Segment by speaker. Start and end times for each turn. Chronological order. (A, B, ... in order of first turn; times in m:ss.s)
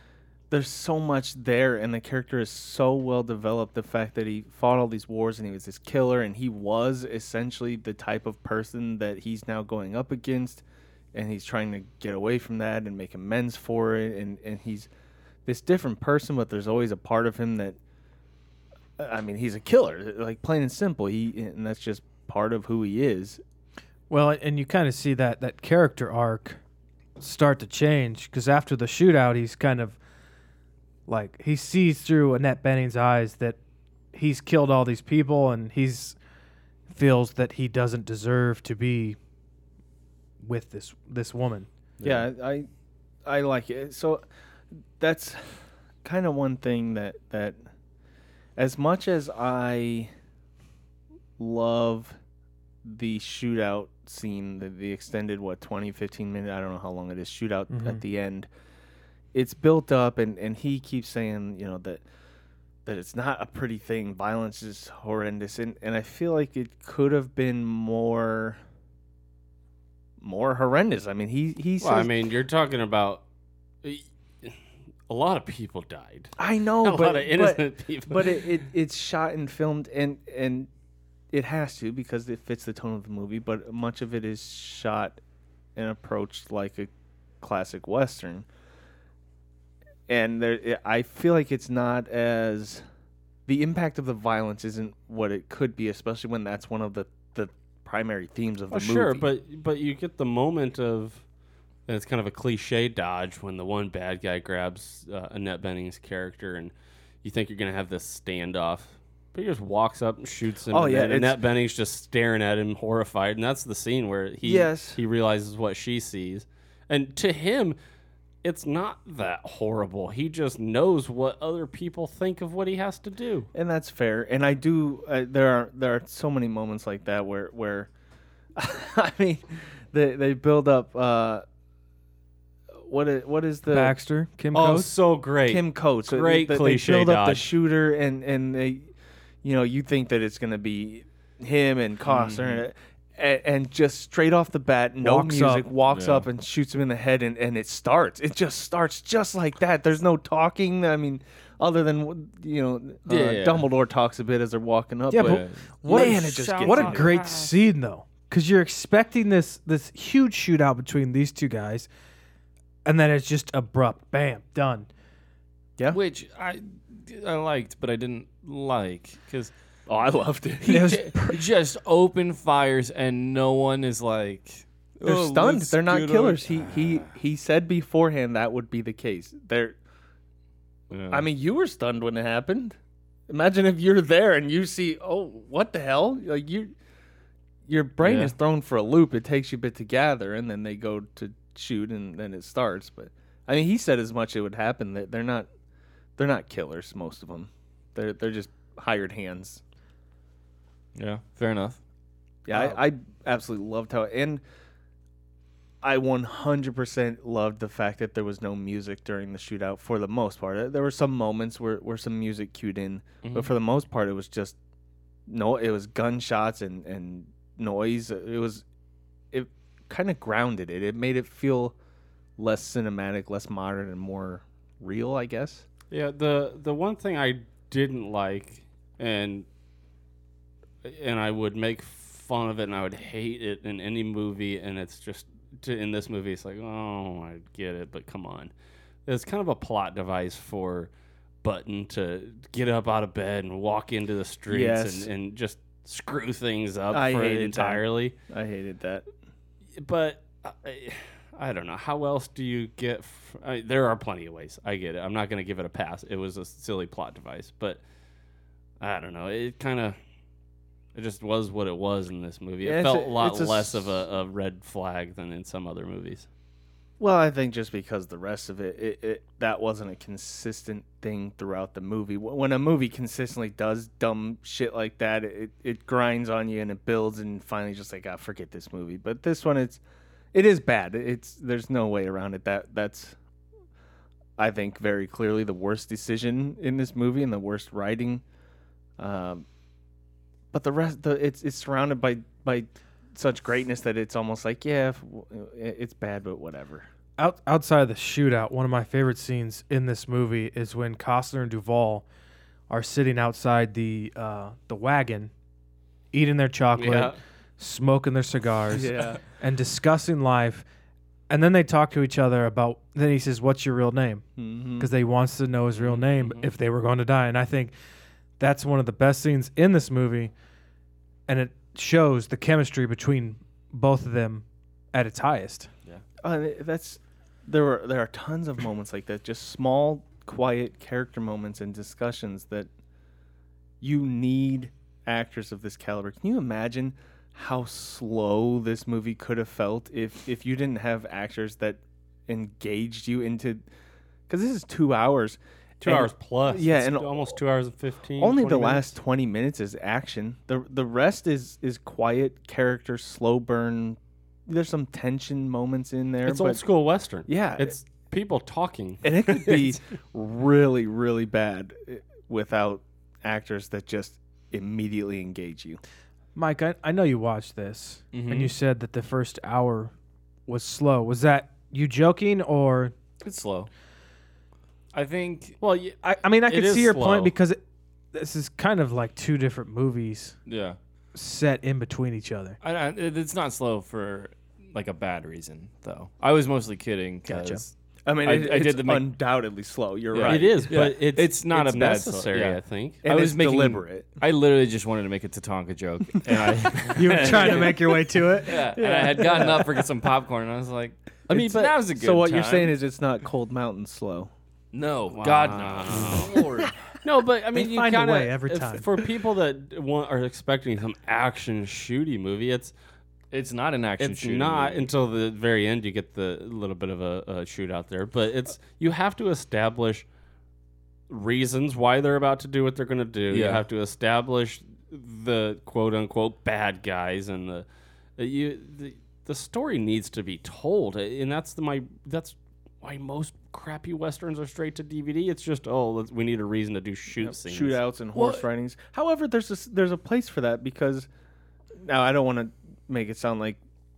0:00.5-0:10.6 A
0:11.1-0:14.9 A
0:15.5-0:17.8 A
0:19.0-0:23.4 A
0:24.1-0:26.6 B
0:27.2-0:30.0 B
0:31.1-0:33.6 B
0:34.1-0:36.2 B
0:36.9-0:39.2 B
0:40.4-0:41.7 B
0:42.0-0:42.3 C
0:42.0-0:42.7 A
0:43.2-0:44.2 A
0:45.0-0:47.6 A
0:48.6-0:50.1 A
0:51.4-0:52.2 A
0:52.8-0:58.5 A
0:57.7-0:58.0 B
0:59.3-1:02.0 A
1:02.9-1:08.6 A
1:10.2-1:12.1 A
1:11.8-1:13.2 D
1:13.8-1:14.6 D
1:15.1-1:16.3 D
1:16.4-1:20.7 A
1:16.8-1:18.6 D
1:21.3-1:25.2 A
1:25.8-1:26.9 A
1:27.4-1:28.5 A
1:30.1-1:32.8 A
1:33.5-1:39.3 A
1:38.7-1:41.2 D
1:41.9-1:46.7 D
1:47.2-1:57.8 D
1:50.7-1:51.4 A
1:54.4-1:55.0 A
1:58.4-2:03.5 D
2:03.5-2:07.9 A
2:08.6-2:11.4 A
2:12.8-2:14.0 A
2:13.7-2:14.9 B
2:14.5-2:17.5 D
2:15.5-2:18.9 A
2:19.4-2:37.2 A
2:22.1-2:22.6 C
2:25.0-2:25.7 B
2:25.9-2:26.3 C
2:33.1-2:33.7 C
2:35.1-2:41.9 B
2:35.1-2:37.6 C
2:42.8-2:44.9 B
2:45.9-2:49.5 C
2:49.9-2:51.0 A
2:50.6-2:57.2 C
2:50.7-2:51.4 B
2:55.0-2:59.8 A
3:00.9-3:01.3 C
3:01.1-3:02.8 A
3:03.3-3:06.7 A
3:07.7-3:15.5 A
3:08.0-3:08.4 C
3:16.2-3:19.6 A
3:21.0-3:21.8 C
3:22.5-3:24.4 A
3:25.8-3:34.6 A
3:33.2-3:33.5 C
3:35.3-3:38.6 A
3:39.3-3:41.8 A
3:42.4-3:45.6 A
3:45.9-3:49.5 D
3:50.8-3:58.5 D
3:59.1-4:00.9 D
4:01.4-4:08.2 D
4:04.5-4:05.1 A
4:06.9-4:09.1 A
4:09.8-4:17.8 D
4:18.8-4:20.0 D
4:20.9-4:26.3 D
4:22.6-4:24.0 A
4:27.0-4:39.8 A
4:40.3-4:43.2 A
4:44.4-4:48.2 A
4:49.0-4:49.4 A
4:50.5-4:56.9 A
4:57.2-5:02.1 B
5:02.7-5:05.3 B
5:06.1-5:10.6 B
5:06.8-5:07.2 D
5:08.7-5:09.2 A
5:11.3-5:14.2 B
5:14.4-5:14.9 A
5:14.8-5:17.7 B
5:15.9-5:16.5 C
5:18.4-5:20.3 B
5:21.3-5:25.7 B
5:26.2-5:32.7 A
5:33.8-5:43.6 A
5:44.3-5:47.3 A
5:45.8-5:48.9 D
5:48.2-5:56.6 A
5:56.2-5:59.8 D
5:57.3-5:57.8 A
5:59.0-6:05.8 A
6:06.4-6:09.9 B
6:08.1-6:08.5 C
6:10.5-6:12.9 B
6:13.2-6:13.7 C
6:14.9-6:15.6 C
6:15.6-6:17.3 D
6:16.0-6:17.6 B
6:18.1-6:20.4 B
6:20.5-6:20.8 C
6:21.1-6:22.6 B
6:22.6-6:29.1 C
6:27.3-6:27.6 B
6:28.1-6:31.0 A
6:30.1-6:42.8 C
6:30.2-6:33.0 D
6:33.0-6:34.1 A
6:37.0-6:38.6 B
6:37.2-6:39.9 A
6:41.3-6:44.3 A
6:44.7-6:46.7 C
6:45.1-6:46.5 D
6:47.0-6:52.7 D
6:47.5-6:48.9 B
6:53.3-6:54.9 C
6:54.0-7:00.1 D
7:01.1-7:07.7 D
7:03.3-7:03.6 C
7:08.2-7:17.8 D
7:17.2-7:21.1 A
7:18.2-7:18.5 C
7:21.8-7:23.6 A